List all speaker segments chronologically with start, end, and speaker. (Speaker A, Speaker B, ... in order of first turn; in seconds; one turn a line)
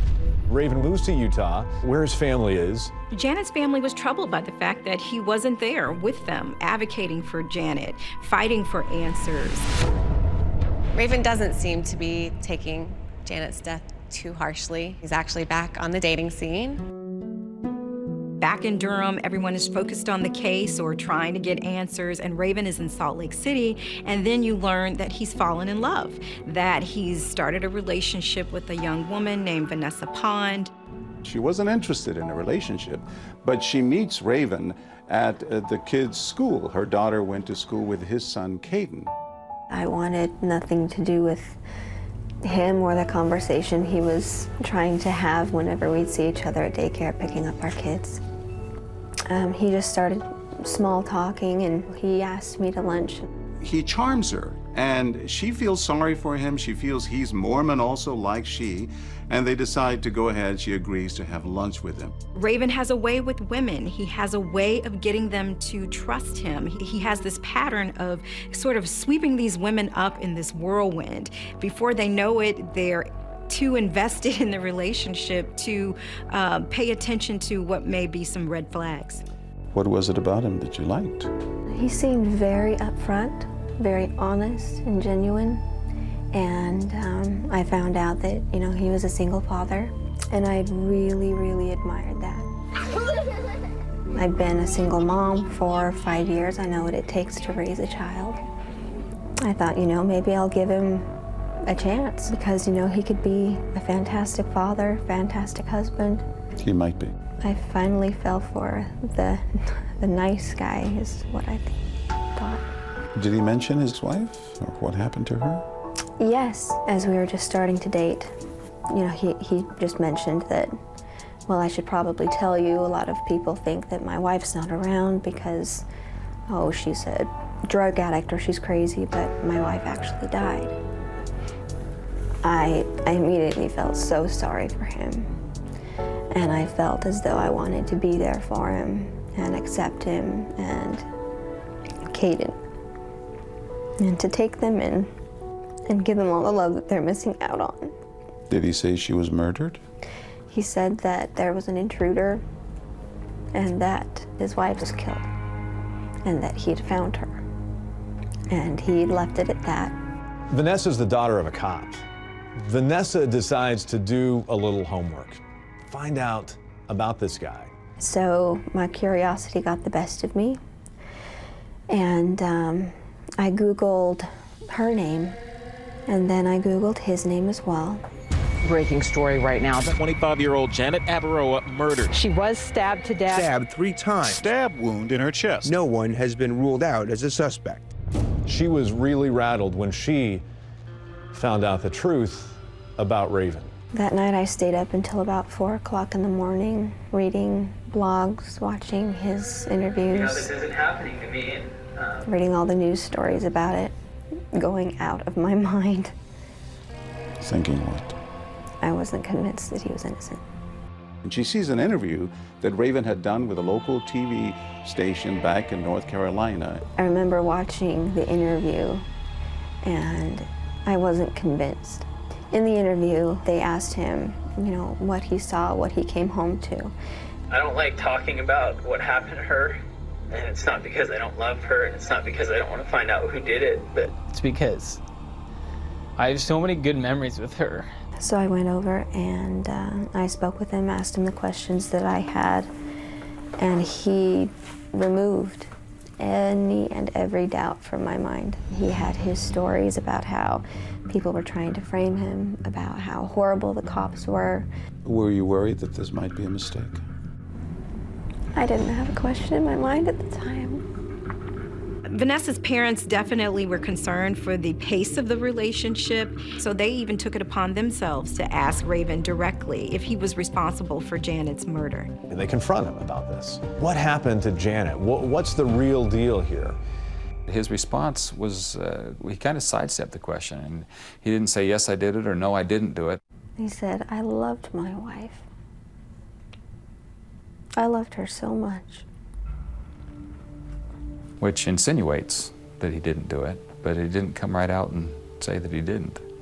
Speaker A: 0.5-2.9
Speaker B: 3.1-9.7
Speaker C: 10.9-16.8
Speaker B: 18.4-30.7
Speaker D: 31.2-39.1
Speaker E: 39.7-41.6
Speaker E: 42.4-48.2
Speaker E: 49.3-53.3
Speaker D: 53.6-62.1
Speaker B: 62.3-79.2
Speaker D: 79.7-81.3
Speaker E: 81.7-85.6
Speaker E: 86.3-92.5
Speaker E: 94.1-98.4
Speaker E: 99.4-101.1
Speaker E: 101.7-106.2
Speaker D: 106.6-107.1
Speaker E: 107.4-111.8
Speaker E: 112.3-112.7
Speaker D: 113.1-115.7
Speaker E: 116.2-118.3
Speaker E: 118.9-120.7
Speaker E: 121.5-125.8
Speaker E: 126.5-130.8
Speaker E: 132.4-135.4
Speaker E: 136.3-141.1
Speaker E: 142.1-142.6
Speaker E: 144.0-145.1
Speaker E: 145.9-147.9
Speaker D: 148.5-149.8
Speaker E: 150.5-152.4
Speaker E: 153.5-155.3
Speaker E: 156.2-157.4
Speaker E: 158.5-159.9
Speaker A: 160.5-162.0
Speaker A: 162.6-167.7
Speaker E: 168.0-170.6
Speaker E: 171.9-175.4
Speaker E: 176.1-178.0
Speaker F: 178.6-179.9
Speaker G: 179.8-182.1
Speaker F: 182.1-183.4
Speaker H: 183.3-184.7
Speaker G: 184.7-185.5
Speaker H: 185.6-187.9
Speaker A: 188.4-190.4
Speaker A: 191.3-193.7
Speaker E: 193.9-200.5
Speaker I: 200.1-202.2
Speaker E: 202.2-203.9
Speaker E: 204.5-206.1
Speaker D: 207.4-208.2
Speaker E: 208.8-210.4
Speaker D: 211.2-216.8
Speaker E: 217.0-219.0
Speaker E: 219.8-226.9
Speaker I: 227.5-229.8
Speaker I: 230.3-234.2
Speaker J: 234.2-235.0
Speaker J: 236.2-237.9
Speaker E: 238.2-242.7
Speaker E: 243.6-254.7
Speaker D: 255.0-257.0
Speaker E: 258.5-260.8
Speaker B: 262.1-272.1
Speaker A: 272.3-276.8
Speaker K: 277.5-283.2
Speaker E: 283.6-285.4
Speaker E: 287.8-289.1
Speaker K: 291.4-296.2